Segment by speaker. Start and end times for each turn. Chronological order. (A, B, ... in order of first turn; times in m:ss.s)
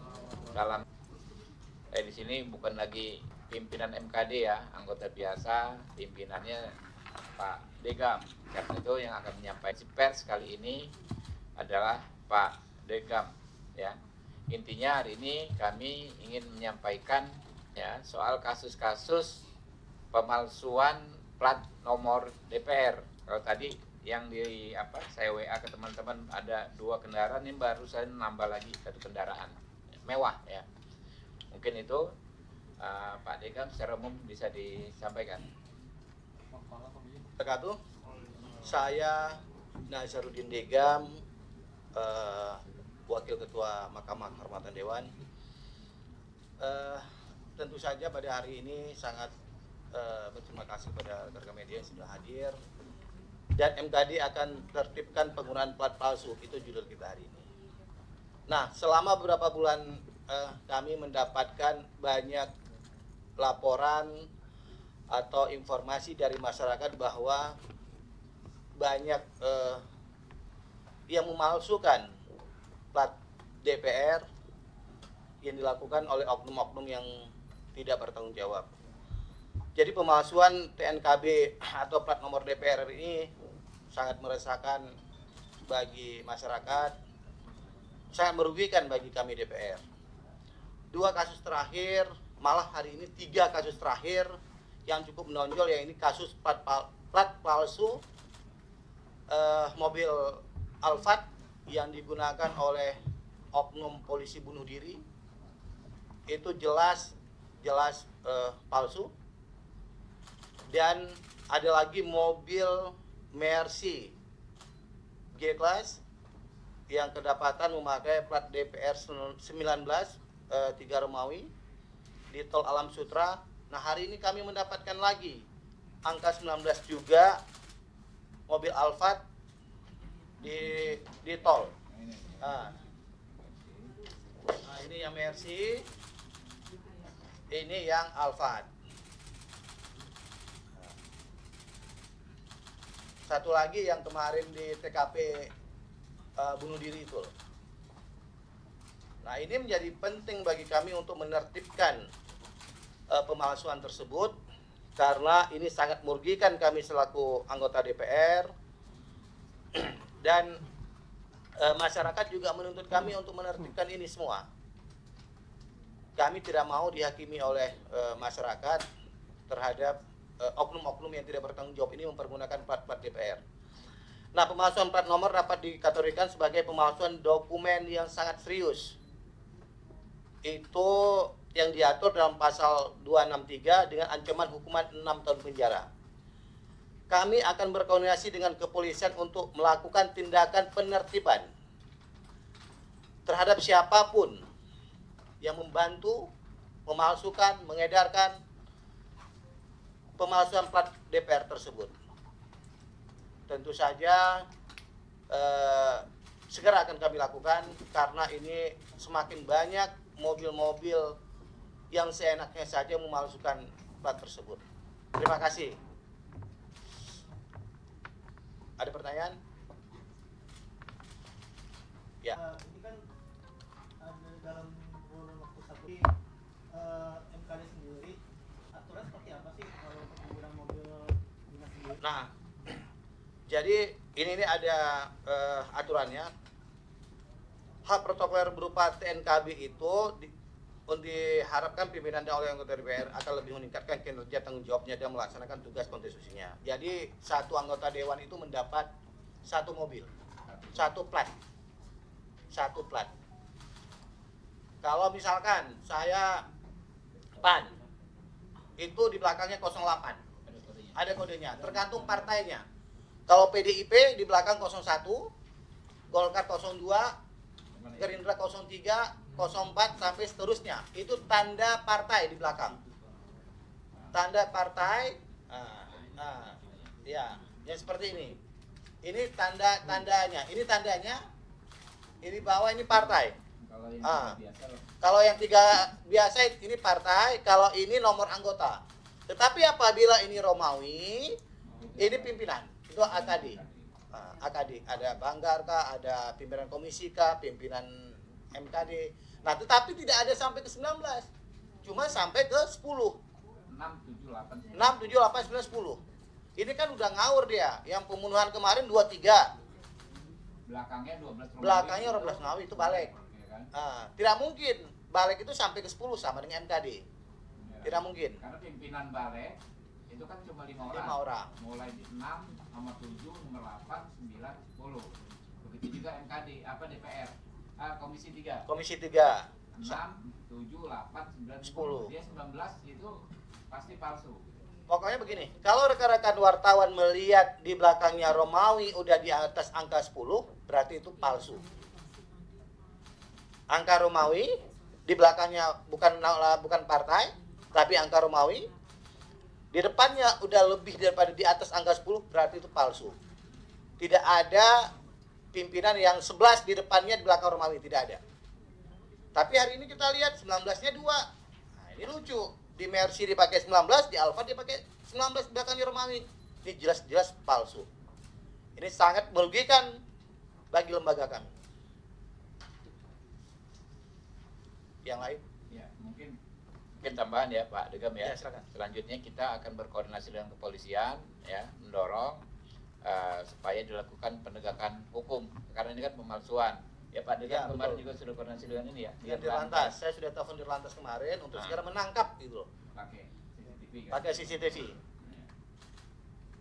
0:00.5-0:00.8 A
0:01.9-0:06.7 A
0:07.4-0:10.9 A
0:11.6-0:14.0 A
0:14.5-0:19.4 A
0:20.1-0:30.7 A
0:31.5-0:32.1 A
0:32.8-0:35.5 A
0:36.6-0:37.2 B
0:37.4-0:37.8 C
0:38.6-0:41.1 C
0:42.0-0:45.1 C
0:46.6-0:47.0 C
0:47.6-0:49.3 C
0:49.9-0:52.6 C
0:53.6-0:57.5 C
0:58.5-1:02.5 C
1:03.4-1:04.3 C
1:05.1-1:07.6 C
1:08.8-1:09.8 C
1:11.1-1:12.1 C
1:13.6-1:14.2 C
1:15.4-1:18.7 C
1:19.8-1:23.3 C
1:23.9-1:24.8 C
1:25.7-1:26.9 C
1:28.1-1:29.8 C
1:30.9-1:34.3 C
1:34.9-1:38.0 C
1:39.3-1:43.0 C
1:43.5-1:45.0 C
1:46.3-1:49.1 C
1:50.7-1:54.1 C
1:55.4-1:56.0 C
1:56.9-2:01.5 C
2:02.3-2:05.4 C
2:06.1-2:07.4 C
2:08.5-2:09.2 C
2:10.4-2:11.7 C
2:11.8-2:12.8 A
2:12.4-2:12.8 C
2:14.5-2:15.8 C
2:17.5-2:18.7 C
2:23.3-2:25.5 C
2:26.4-2:27.3 C
2:29.2-2:32.1 C
2:33.1-2:34.4 C
2:35.0-2:38.5 C
2:39.7-2:40.6 C
2:41.6-2:44.4 C
2:46.2-2:48.8 C
2:49.5-2:53.4 C
2:54.3-2:59.0 C
3:00.4-3:05.9 C
3:07.1-3:11.5 C
3:13.3-3:14.4 C
3:15.4-3:16.3 C
3:16.9-3:18.4 C
3:20.2-3:21.9 C
3:23.5-3:24.5 C
3:25.3-3:31.2 C
3:31.9-3:34.6 C
3:35.2-3:35.8 C
3:38.8-3:39.4 C
3:42.3-3:43.0 B
3:44.0-3:46.1 B
3:46.7-3:48.2 B
3:48.7-3:52.0 B
3:52.0-3:52.8 C
3:53.5-3:56.3 C
3:57.9-4:00.3 C
4:00.9-4:08.9 C
4:09.5-4:10.1 C
4:10.5-4:10.9 A
4:10.8-4:11.3 C
4:12.5-4:13.1 C
4:14.8-4:16.5 C
4:17.4-4:17.8 C
4:18.8-4:20.2 C
4:20.4-4:21.1 A
4:21.0-4:22.6 C
4:23.3-4:25.3 C
4:26.1-4:27.2 C
4:27.7-4:28.2 A
4:28.0-4:32.8 C
4:34.1-4:38.4 C
4:36.0-4:36.6 A
4:39.0-4:41.2 C
4:42.2-4:43.4 C
4:43.6-4:44.8 A
4:44.0-4:44.4 C
4:45.0-4:51.4 C
4:51.7-4:52.4 A
4:52.0-4:53.6 C
4:53.0-4:53.9 A
4:54.1-5:01.3 C
5:01.8-5:03.2 C
5:03.7-5:04.9 A
5:04.7-5:06.0 C
5:06.6-5:09.5 C
5:10.7-5:13.7 A
5:11.6-5:13.1 C
5:13.7-5:17.0 C
5:17.6-5:28.7 A
5:17.8-5:18.4 C
5:20.9-5:21.5 C
5:28.7-5:30.0 C
5:29.7-5:33.2 A
5:31.6-5:32.1 C
5:33.7-5:34.5 A
5:34.9-5:41.6 C
5:43.7-5:44.5 C
5:45.1-5:48.7 C
5:49.7-5:53.2 C
5:54.0-5:54.9 C
5:55.5-5:58.2 C
5:59.4-6:01.3 C
6:01.8-6:07.9 C
6:08.8-6:09.9 C
6:10.7-6:11.5 C
6:15.0-6:15.4 C
6:15.7-6:16.4 A
6:17.0-6:22.4 A
6:18.2-6:18.7 C
6:23.0-6:30.0 A
6:27.5-6:28.0 C
6:29.2-6:32.7 C
6:32.9-6:35.5 A
6:34.1-6:35.0 C